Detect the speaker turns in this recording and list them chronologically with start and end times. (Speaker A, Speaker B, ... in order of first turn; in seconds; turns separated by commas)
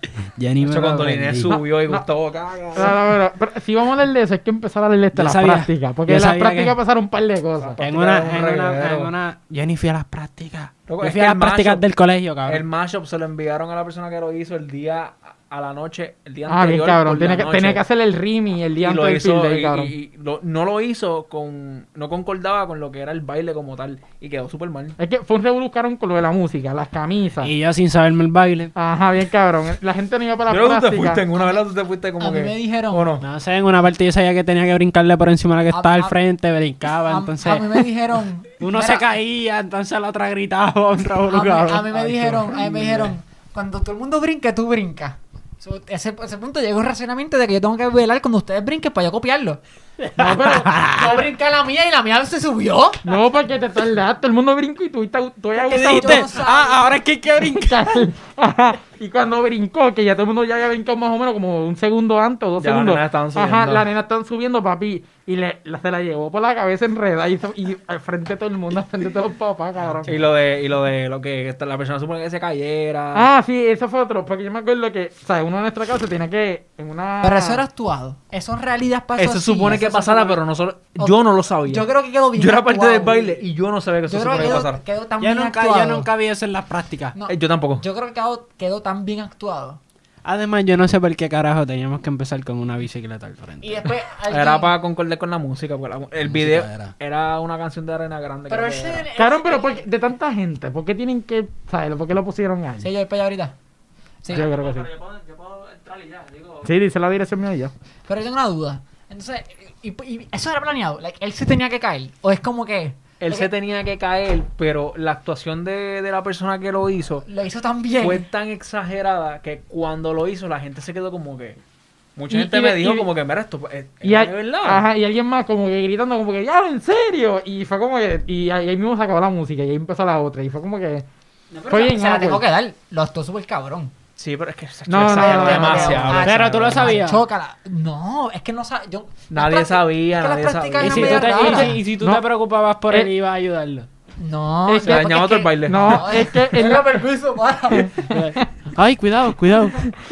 Speaker A: 0.2-1.6, Speaker B: 0.6-3.0, Speaker C: 1.5-2.0, Speaker C: 2.7-7.8, Speaker A: 5.1-6.8, Speaker B: 7.6-9.1, Speaker A: 7.8-12.6, Speaker B: 10.9-11.8, Speaker B: 12.4-17.8, Speaker C: 16.4-19.9, Speaker B: 18.8-24.9, Speaker C: 25.0-27.5, Speaker A: 27.4-28.7, Speaker C: 28.7-31.2, Speaker B: 30.5-33.2, Speaker D: 31.3-31.6, Speaker D: 32.2-33.1, Speaker A: 33.2-37.9, Speaker D: 35.7-36.2, Speaker D: 37.1-39.0, Speaker A: 38.6-43.1, Speaker D: 41.3-49.6, Speaker A: 50.0-51.1, Speaker C: 50.1-51.2, Speaker D: 50.8-53.0, Speaker C: 53.0-56.3, Speaker D: 55.6-57.0, Speaker A: 55.7-58.0, Speaker C: 57.4-70.2, Speaker B: 62.6-63.9, Speaker B: 70.0-73.3, Speaker C: 73.1-77.6, Speaker D: 77.2-80.4, Speaker B: 79.2-84.8, Speaker D: 81.0-83.4, Speaker D: 84.1-86.1, Speaker A: 85.2-87.2, Speaker D: 87.1-89.8, Speaker B: 87.3-87.8, Speaker A: 90.2-93.9, Speaker D: 93.6-94.7, Speaker B: 94.3-99.1, Speaker A: 96.2-97.0, Speaker D: 98.5-99.8, Speaker C: 99.2-102.9, Speaker D: 102.8-103.5, Speaker D: 104.2-104.5, Speaker C: 104.3-104.9, Speaker E: 104.4-106.7, Speaker C: 106.6-107.7, Speaker D: 108.1-113.5, Speaker B: 113.2-117.2, Speaker D: 117.2-118.2, Speaker B: 118.0-121.6, Speaker B: 122.2-124.8, Speaker C: 122.3-123.1, Speaker C: 124.0-131.1, Speaker D: 131.5-133.9, Speaker C: 131.7-132.4, Speaker B: 134.2-137.0, Speaker C: 134.9-136.2, Speaker D: 135.0-141.8, Speaker A: 136.1-137.2, Speaker B: 139.3-141.3, Speaker A: 140.8-143.9, Speaker C: 140.9-142.2, Speaker D: 144.2-148.0, Speaker C: 144.7-145.1, Speaker B: 144.8-146.3, Speaker C: 145.6-147.0, Speaker C: 147.7-148.4, Speaker A: 148.1-149.8